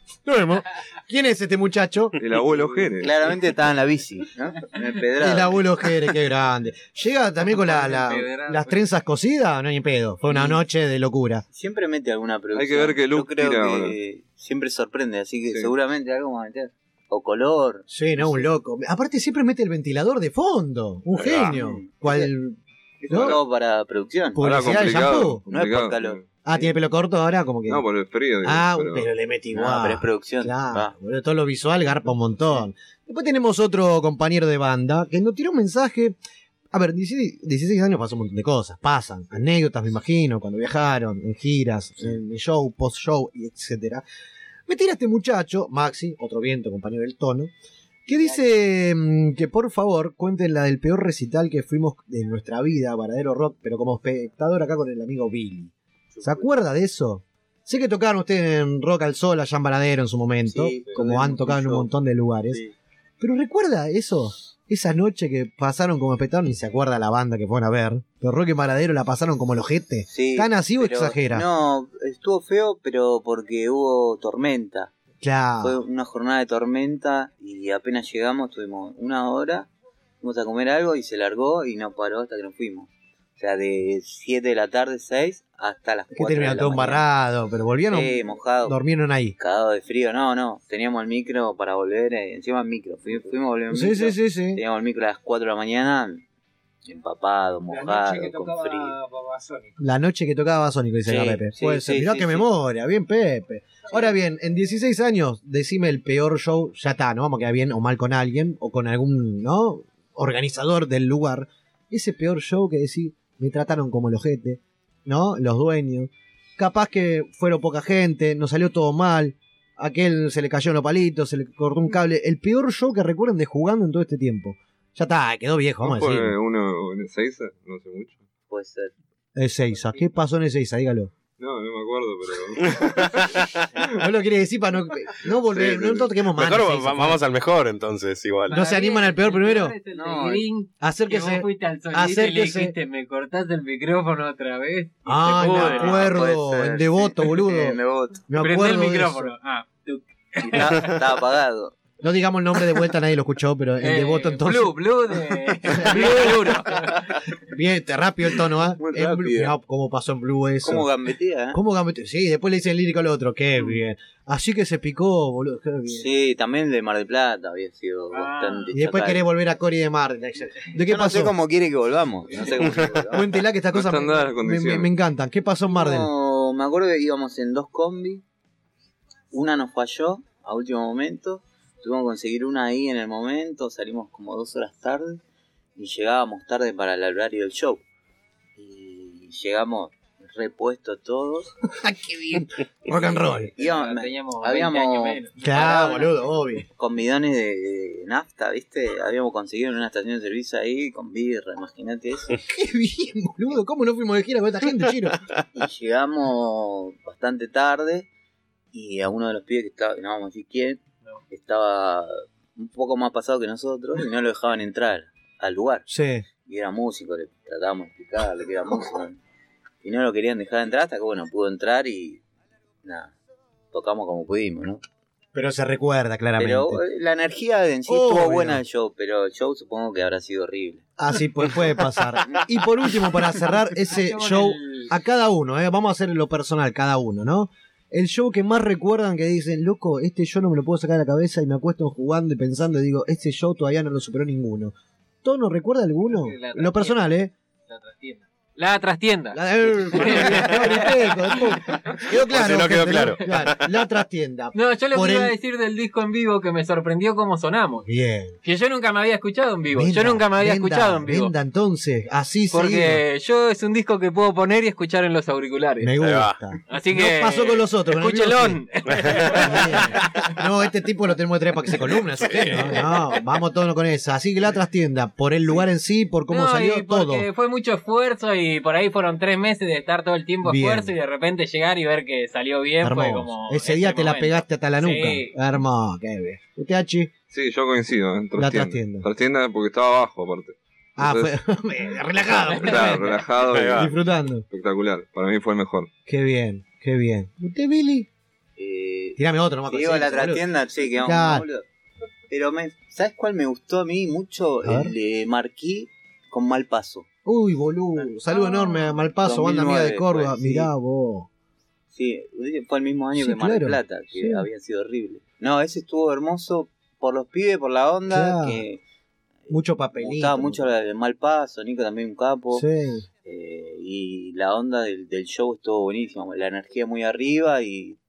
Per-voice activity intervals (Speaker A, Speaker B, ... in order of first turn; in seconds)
Speaker A: 0.2-2.2, 5.2-11.4, 17.9-22.6, 23.1-23.4, 24.4-25.5, 26.4-27.9, 28.4-36.2, 36.7-44.0, 44.7-47.5, 48.1-62.6, 63.2-71.5, 75.2-75.8, 86.1-89.4, 93.7-94.6, 99.8-126.3, 129.4-131.1, 133.9-137.2, 138.5-139.8, 140.8-142.7, 145.1-149.3, 152.0-154.9, 155.6-156.6, 157.5-160.9, 161.5-166.1, 168.7-171.4, 173.1-176.1, 191.8-193.5, 195.4-196.7, 202.4-205.2, 215.9-216.2, 225.3-226.8, 227.9-228.6, 231.0-247.3, 249.3-255.3, 257.9-258.4, 259.7-263.0, 265.8-277.3, 280.4-280.9, 282.8-287.1, 288.4-289.1, 291.0-294.5, 296.1-298.1, 299.2-301.5, 304.6-304.9, 307.2-311.3, 313.2-314.5, 318.1-318.6, 319.5-320.7, 322.5-323.1
Speaker B: 2.2-3.3, 12.6-14.0, 24.4-26.4, 27.7-29.1, 125.8-128.2, 131.4-132.8, 173.7-174.9, 287.3-291.3, 292.7-293.9, 294.5-295.9
Speaker C: 3.0-5.7, 10.3-10.6, 11.5-18.5, 21.2-22.3, 23.0-24.6, 25.5-26.7, 29.5-30.9, 56.1-56.5, 60.5-61.9, 70.1-74.9, 75.6-79.7, 80.2-87.0, 87.9-88.8, 89.4-96.2, 96.9-99.0, 101.1-102.5, 128.5-128.9, 139.9-140.5, 145.4-148.3, 150.4-151.8, 160.6-161.6, 165.9-169.2, 170.8-173.3, 175.7-178.2, 179.3-185.2, 185.8-187.8, 188.6-191.5, 193.6-195.8, 196.7-202.3, 205.5-208.1, 208.7-215.9, 216.4-219.2, 219.8-222.2, 222.8-223.1, 223.7-224.8, 226.4-230.8, 298.6-301.6, 302.3-307.1, 309.2-310.7, 311.9-318.8, 319.5-322.7, 323.2-328.0
Speaker D: 7.5-8.8, 138.5-146.1, 148.4-150.9, 153.8-157.0, 168.1-168.7, 193.6-196.1, 233.8-234.9, 246.1-247.1, 247.7-251.6, 254.5-257.9, 258.4-261.3, 262.5-266.0, 266.7-270.1, 276.3-285.4, 292.4-293.0
Speaker E: 97.7-99.8
Speaker F: 132.6-133.5, 135.5-138.6, 252.3-253.6, 266.0-266.3, 268.9-269.6, 272.2-272.8, 293.4-293.9